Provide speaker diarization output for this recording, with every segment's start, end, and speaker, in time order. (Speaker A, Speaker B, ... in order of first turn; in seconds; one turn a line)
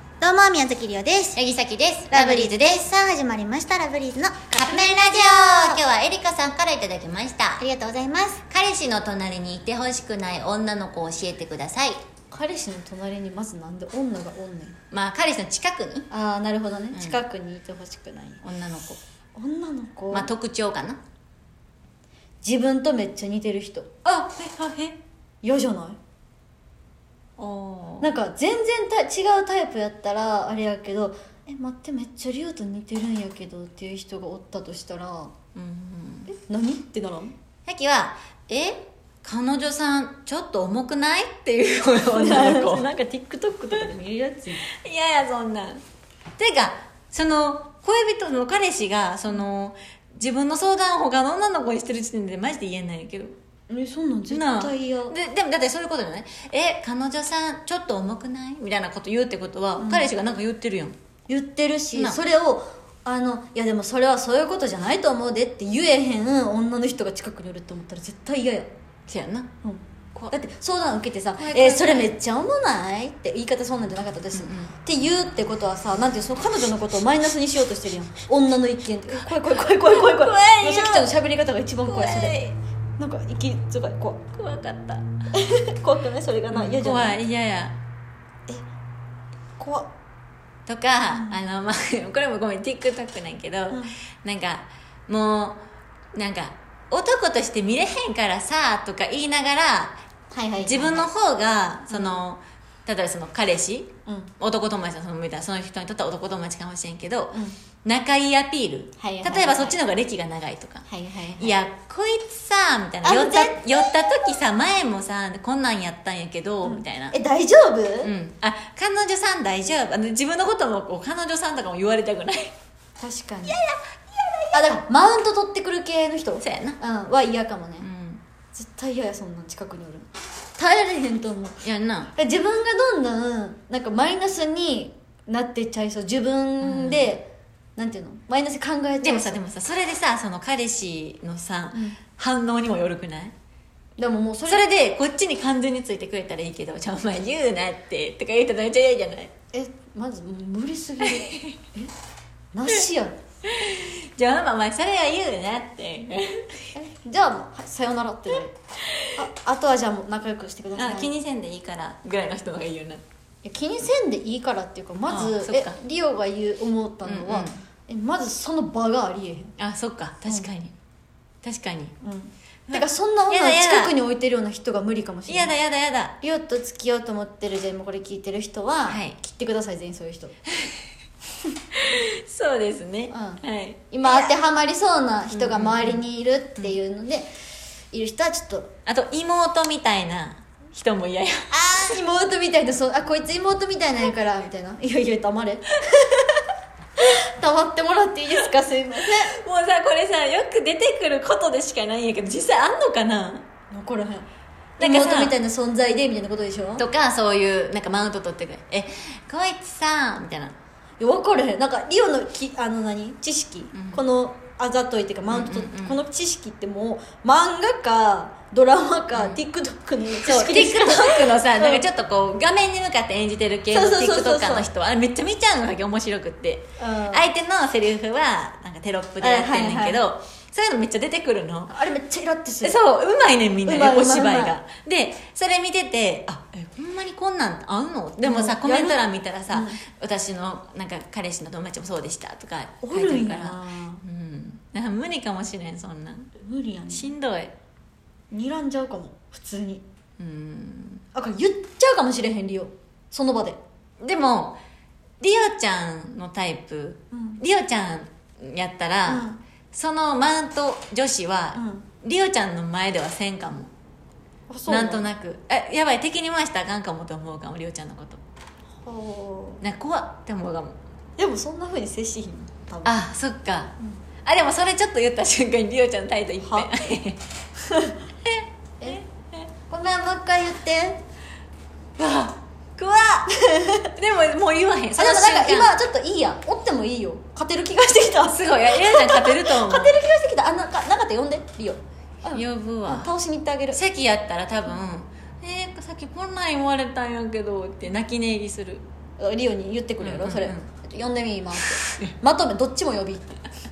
Speaker A: 0.2-1.4
Speaker B: 1.3-2.6
Speaker A: 2.1-5.8
Speaker B: 4.5-7.6
Speaker A: 7.6-8.4
Speaker B: 8.5-12.0
Speaker C: 12.3-14.8
Speaker B: 14.9-16.1
Speaker C: 16.1-18.4
Speaker B: 16.9-17.2
Speaker B: 18.4-19.0
Speaker C: 19.4-20.3
Speaker B: 20.1-21.0
Speaker C: 22.4-23.9
Speaker B: 24.1-25.0
Speaker C: 25.4-26.0
Speaker B: 27.4-28.1
Speaker C: 28.0-35.3
Speaker B: 35.5-36.3
Speaker C: 36.3-37.3
Speaker B: 37.6-42.9
Speaker C: 42.1-44.6
Speaker B: 44.7-45.8
Speaker B: 46.4-53.3
Speaker C: 53.7-55.1
Speaker B: 54.3-61.0
Speaker C: 59.8-60.1
Speaker C: 61.3-68.7
Speaker B: 61.9-62.2
Speaker B: 69.1-69.5
Speaker C: 69.6-82.4
Speaker B: 71.3-72.1
Speaker B: 74.3-74.7
Speaker B: 79.3-81.1
Speaker B: 81.8-82.6
Speaker C: 83.0-84.3
Speaker B: 84.3-85.0
Speaker C: 85.3-87.2
Speaker B: 86.5-87.8
Speaker C: 89.6-89.9
Speaker B: 90.7-95.6
Speaker C: 91.1-91.4
Speaker B: 96.1-99.9
Speaker C: 100.3-101.1
Speaker B: 100.6-117.2
Speaker C: 101.9-102.2
Speaker C: 104.0-104.3
Speaker C: 109.0-109.8
Speaker C: 110.9-111.5
Speaker C: 113.0-113.6
Speaker C: 116.6-118.1
Speaker B: 118.0-122.5
Speaker C: 123.0-123.6
Speaker B: 123.5-124.8
Speaker C: 124.5-127.9
Speaker B: 126.4-126.8
Speaker B: 127.8-128.2
Speaker C: 128.5-131.6
Speaker B: 131.6-132.1
Speaker C: 132.1-139.4
Speaker B: 136.6-137.1
Speaker B: 139.0-143.3
Speaker C: 141.7-142.0
Speaker C: 144.0-144.6
Speaker B: 144.5-149.3
Speaker C: 149.5-151.9
Speaker B: 151.0-151.6
Speaker C: 152.5-153.2
Speaker B: 153.4-156.7
Speaker C: 156.8-158.6
Speaker B: 158.9-159.2
Speaker C: 159.2-161.1
Speaker B: 160.8-163.0
Speaker C: 163.4-169.5
Speaker B: 165.1-165.8
Speaker B: 167.0-167.6
Speaker B: 169.6-170.7
Speaker B: 171.4-171.9
Speaker C: 172.0-175.5
Speaker B: 172.7-173.9
Speaker B: 175.3-176.2
Speaker C: 176.2-180.4
Speaker B: 178.9-179.2
Speaker B: 181.7-184.2
Speaker C: 183.1-187.3
Speaker B: 185.3-186.0
Speaker C: 187.9-188.7
Speaker B: 188.9-192.0
Speaker C: 191.5-196.4
Speaker C: 197.0-199.3
Speaker B: 199.2-203.5
Speaker C: 203.7-204.3
Speaker B: 204.8-205.4
Speaker C: 204.8-206.9
Speaker B: 206.8-210.6
Speaker C: 211.0-221.9
Speaker B: 213.7-214.0
Speaker B: 215.3-216.0
Speaker B: 219.1-219.4
Speaker B: 220.2-231.7
Speaker C: 223.7-224.7
Speaker C: 226.8-227.2
Speaker C: 229.2-230.0
Speaker C: 231.7-232.8
Speaker B: 232.6-246.3
Speaker C: 233.7-234.6
Speaker C: 238.2-239.0
Speaker C: 239.5-239.8
Speaker C: 242.8-244.0
Speaker C: 246.4-247.1
Speaker B: 246.9-247.6
Speaker C: 248.3-249.8
Speaker B: 250.2-251.0
Speaker C: 251.1-253.6
Speaker B: 254.0-254.6
Speaker B: 255.2-263.7
Speaker C: 257.1-257.4
Speaker C: 259.1-259.4
Speaker C: 261.5-261.9
Speaker C: 264.5-265.1
Speaker B: 264.7-268.2
Speaker C: 268.8-269.6
Speaker B: 269.6-270.8
Speaker C: 271.2-273.0
Speaker B: 272.9-277.2
Speaker C: 276.4-276.7
Speaker C: 277.7-277.9
Speaker B: 278.2-279.4
Speaker C: 279.7-281.0
Speaker B: 282.0-283.3
Speaker C: 283.3-283.9
Speaker B: 283.9-285.7
Speaker C: 284.9-293.8
Speaker B: 288.2-290.0
Speaker B: 292.3-293.1
Speaker B: 293.7-298.9
Speaker C: 299.2-303.4
Speaker B: 300.0-300.7